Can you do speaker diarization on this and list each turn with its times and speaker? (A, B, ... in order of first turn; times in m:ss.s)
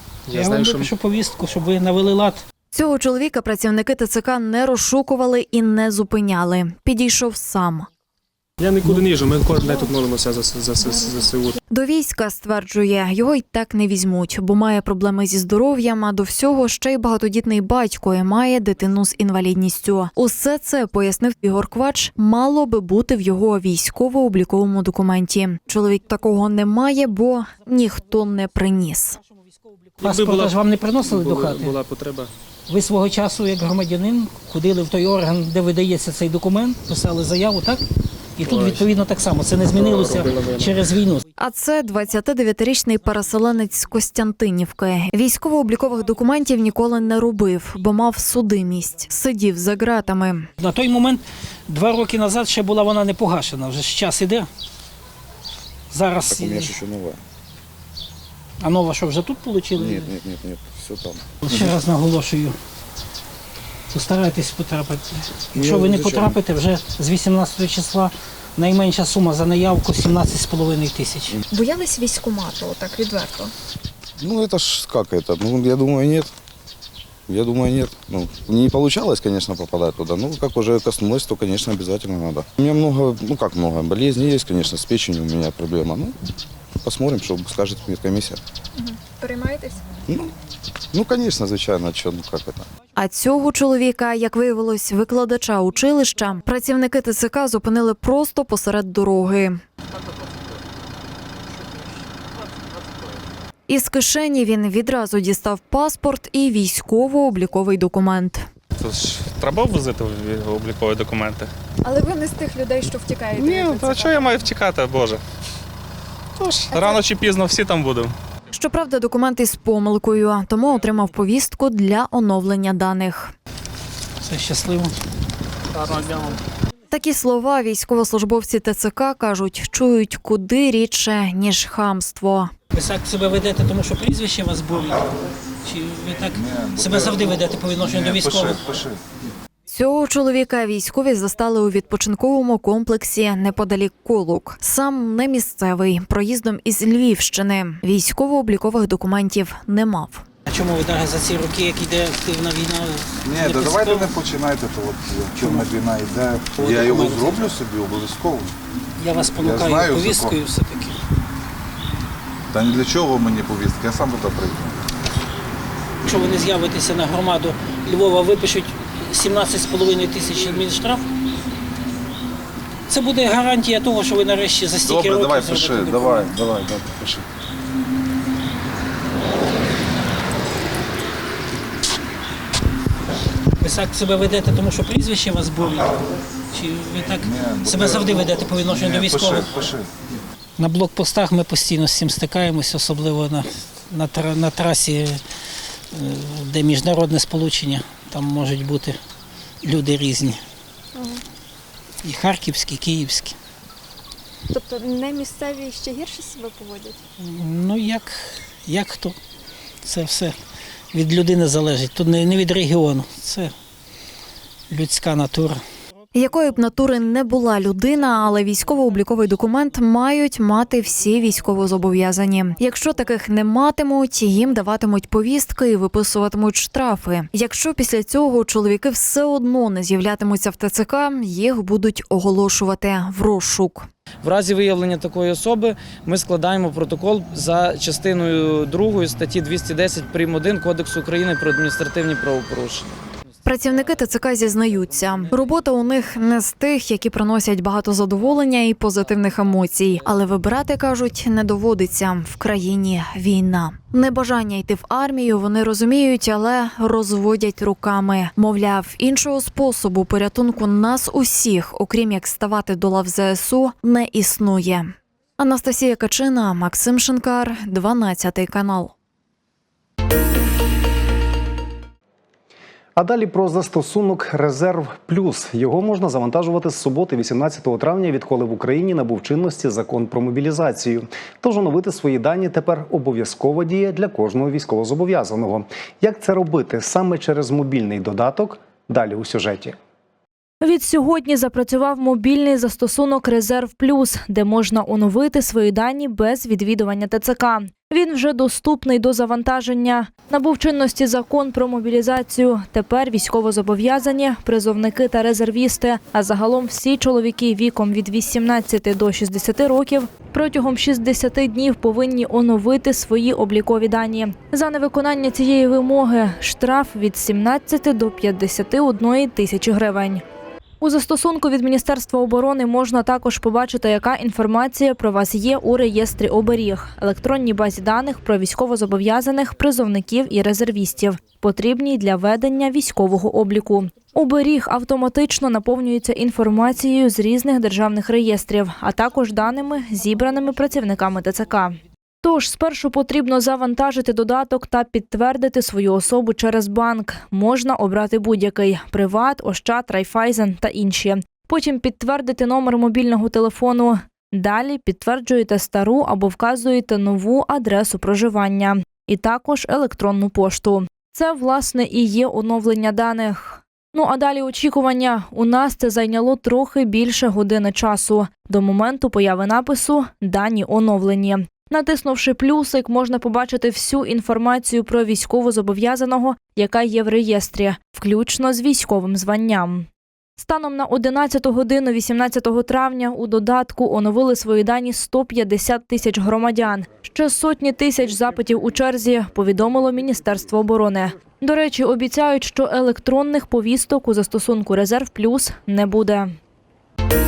0:00.3-0:00.9 A
0:00.3-0:02.4 B
0:02.7-0:07.9 C
0:08.6-0:11.6 A
0:11.7-0:29.2 C
0:30.0-0:31.8 B
0:30.0-0:32.3 A
0:32.7-0:37.8 B
0:38.4-0:41.2 B
0:38.4-0:38.9 A
0:39.7-0:41.0 A
0:41.4-0:50.5 C
0:50.6-0:54.5 B
0:55.9-0:56.8 B
0:56.3-0:57.2 D
0:58.6-1:00.1 B
0:59.7-1:01.6 D
1:01.4-1:02.6 B
1:03.9-1:11.4 B
1:05.5-1:06.4 D
1:11.5-1:13.5 E
1:14.2-1:16.3 D
1:17.3-1:26.1 D
1:26.8-1:28.4 D
1:28.8-1:29.8 E
1:30.9-1:32.7 D
1:32.9-1:39.6 C
1:43.7-1:48.5 C
1:48.8-1:51.5 F
1:51.8-1:54.4 E
1:53.4-1:55.2 F
1:56.4-1:58.1 F
1:56.7-1:57.0 E
1:58.5-2:03.3 C
2:04.2-2:04.9 B
2:06.9-2:12.5 C
2:12.7-2:15.1 B
2:15.6-2:18.7 B
2:16.3-2:19.0 G
2:19.7-2:30.2 C
2:30.5-2:34.1 B
2:33.2-2:38.5 G
2:35.4-2:35.7 B
2:36.6-2:37.6 B
2:39.0-2:41.0 B
2:39.4-2:40.4 G
2:42.5-2:44.8 G
2:46.0-2:51.0 B
2:52.9-2:56.3 B
2:54.8-2:57.2 G
3:03.6-3:06.0 B
3:06.5-3:09.6 B
3:07.2-3:09.9 G
3:10.6-3:15.2 B
3:15.9-3:19.0 B
3:19.6-3:20.4 B
3:21.0-3:21.2 E
3:22.0-3:23.4 B
3:24.5-3:27.0 E
3:27.2-3:29.2 B
3:29.8-3:30.4 B
3:30.9-3:33.5 B
3:34.7-3:35.6 B
3:36.1-3:53.9 C
3:54.2-4:02.9 H
4:03.4-4:28.9 C
4:33.0-4:49.8 I
4:50.6-5:20.2 J
5:20.8-6:36.3 J